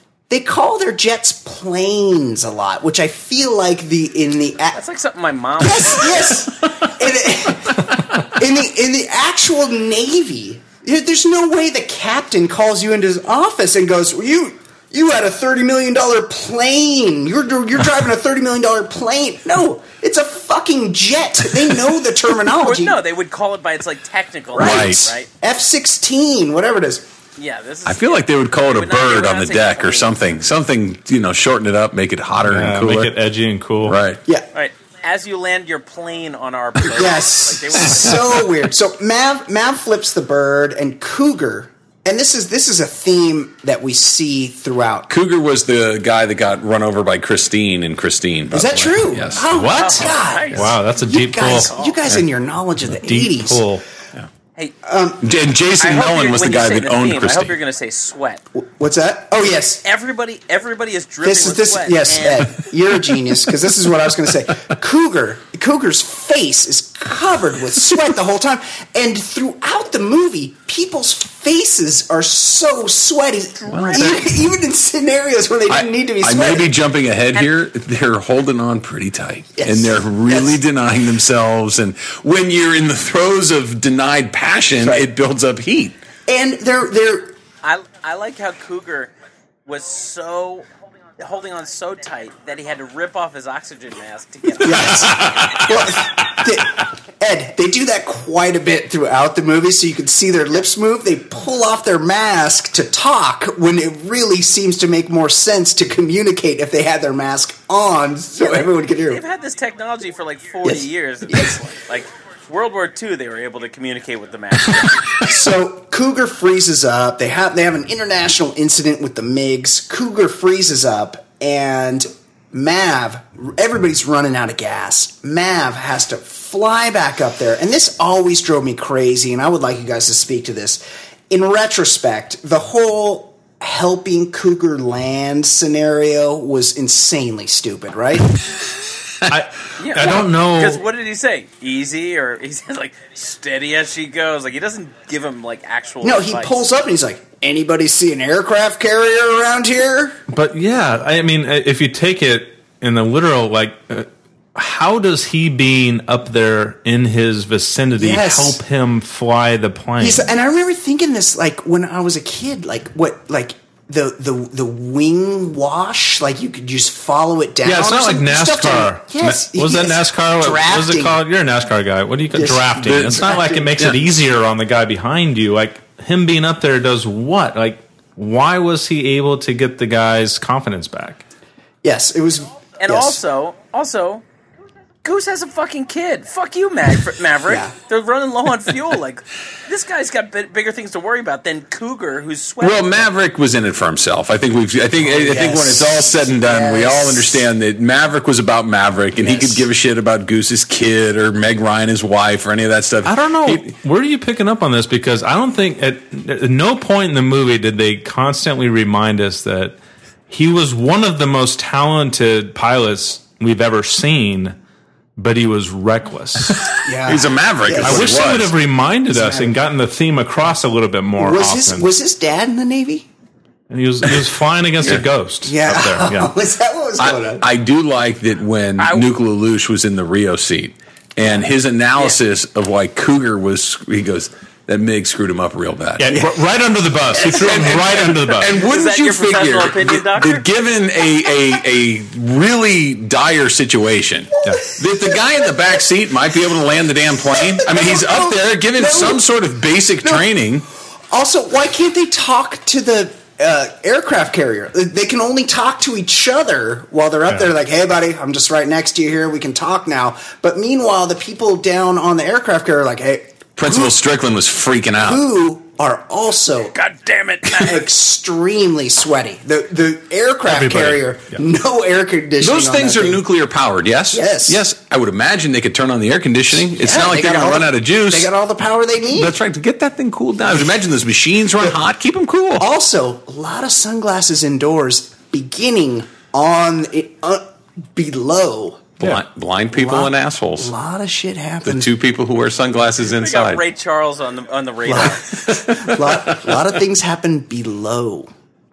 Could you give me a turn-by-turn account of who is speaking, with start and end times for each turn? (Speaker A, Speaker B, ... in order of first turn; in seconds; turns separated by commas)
Speaker A: 0.3-4.8, Speaker B: 4.7-6.4, Speaker A: 5.6-23.0, Speaker B: 22.6-25.3, Speaker A: 24.5-27.1, Speaker C: 24.6-25.1, Speaker B: 27.4-30.2, Speaker C: 27.9-33.2, Speaker D: 32.4-34.0, Speaker C: 33.8-34.2, Speaker B: 34.5-38.4, Speaker A: 36.9-45.1, Speaker C: 45.1-49.6, Speaker A: 48.5-53.7, Speaker D: 49.5-51.7, Speaker B: 49.7-50.7, Speaker B: 51.4-52.0, Speaker D: 53.0-53.8, Speaker A: 54.8-55.3, Speaker C: 55.2-57.5, Speaker B: 55.8-58.4, Speaker A: 58.5-59.8, Speaker B: 59.8-62.6, Speaker A: 61.2-76.7, Speaker B: 73.6-74.2, Speaker C: 73.7-74.2, Speaker C: 75.7-86.0, Speaker A: 79.6-80.6, Speaker A: 84.8-85.1, Speaker A: 86.3-87.4, Speaker B: 87.6-89.1, Speaker B: 89.7-90.7, Speaker B: 91.2-95.6, Speaker A: 94.6-109.2, Speaker C: 94.8-95.9, Speaker B: 108.4-115.2, Speaker A: 110.6-111.6, Speaker A: 115.2-138.4, Speaker D: 139.3-140.8, Speaker B: 139.8-146.6, Speaker A: 146.0-150.2, Speaker D: 150.3-160.3, Speaker A: 158.0-158.6, Speaker A: 160.0-171.2, Speaker D: 167.7-181.2, Speaker A: 172.3-173.8, Speaker C: 172.8-174.0, Speaker A: 181.8-183.2, Speaker B: 182.8-184.2, Speaker B: 185.0-193.1, Speaker A: 187.5-187.7, Speaker C: 192.6-203.7, Speaker A: 195.0-197.4, Speaker A: 199.3-199.6, Speaker D: 203.1-209.8, Speaker D: 210.3-214.6, Speaker D: 215.2-216.7, Speaker A: 216.8-218.4, Speaker C: 217.1-218.6, Speaker D: 217.8-221.9, Speaker A: 219.1-219.6, Speaker A: 221.2-223.1, Speaker D: 223.7-226.3, Speaker A: 225.4-227.5, Speaker C: 227.0-236.1, Speaker B: 228.8-229.1, Speaker D: 236.0-238.5, Speaker A: 236.1-236.4, Speaker A: 237.1-238.1, Speaker C: 237.3-250.7, Speaker B: 238.6-240.4, Speaker A: 247.3-249.2, Speaker A: 251.1-264.0, Speaker C: 263.6-265.2, Speaker A: 265.0-266.8, Speaker B: 266.7-267.8, Speaker A: 267.5-273.2, Speaker D: 270.5-271.4, Speaker C: 272.4-278.3, Speaker A: 274.1-274.6, Speaker A: 276.6-279.4, Speaker C: 279.1-282.7, Speaker A: 282.6-288.9, Speaker C: 289.0-290.7, Speaker A: 289.7-291.9, Speaker C: 291.6-293.6, Speaker B: 293.1-295.3, Speaker A: 294.9-298.3, Speaker C: 295.5-296.1